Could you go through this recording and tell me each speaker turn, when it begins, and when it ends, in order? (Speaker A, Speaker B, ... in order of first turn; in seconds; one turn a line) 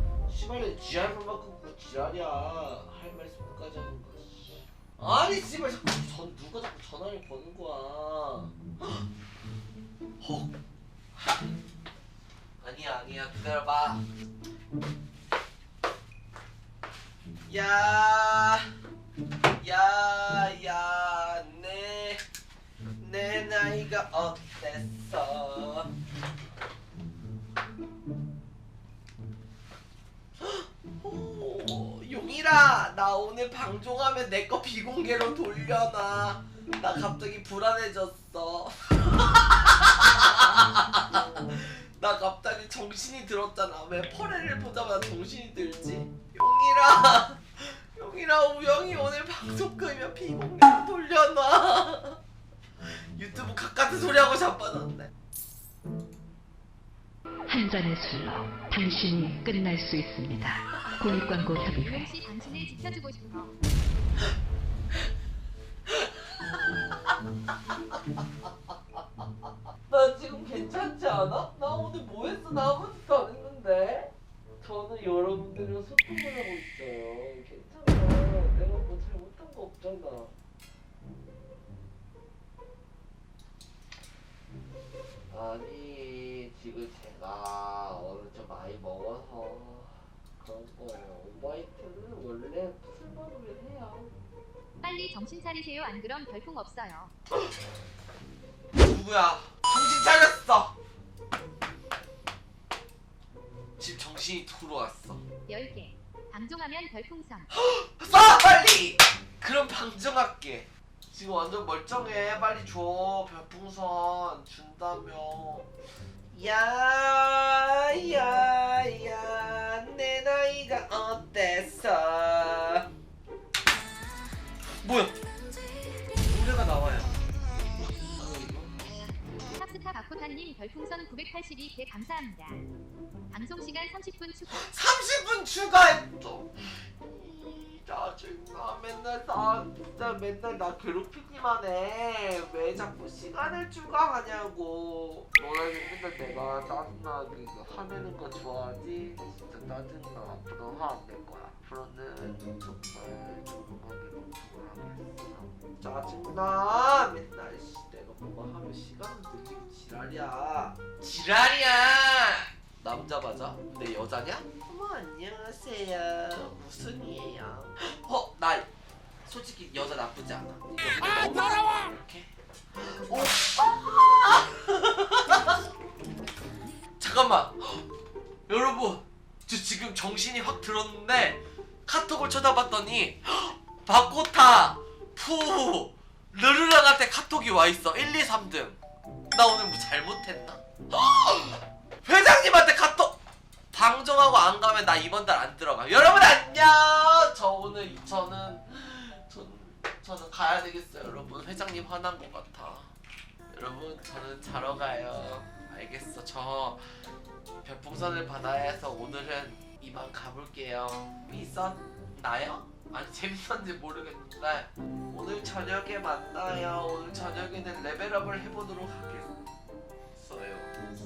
Speaker A: 0.3-9.1
Speaker A: 10.2-10.5
Speaker A: 11.2-11.5
Speaker A: 12.6-14.0
Speaker A: 17.5-18.7
Speaker A: 19.6-22.2
Speaker A: 23.0-25.9
Speaker A: 30.4-52.2
Speaker A: 52.8-55.1
Speaker B: 57.5-62.1
Speaker C: 61.6-63.5
Speaker A: 65.9-67.1
Speaker A: 69.9-80.3
Speaker A: 85.3-94.1
Speaker C: 94.8-97.1
Speaker A: 98.8-100.7
Speaker A: 103.8-105.2
Speaker C: 105.5-107.5
Speaker A: 107.5-115.7
Speaker A: 116.3-122.9
Speaker A: 124.8-125.2
Speaker A: 126.2-127.2
Speaker A: 127.8-128.9
Speaker C: 129.6-132.7
Speaker C: 133.3-134.7
Speaker A: 134.5-168.7
Speaker A: 169.3-175.6
Speaker A: 177.0-177.9
Speaker A: 178.5-188.8
Speaker A: 189.3-193.2
Speaker A: 193.7-202.9
Speaker A: 203.5-206.8
Speaker A: 207.6-219.4
Speaker A: 220.2-220.7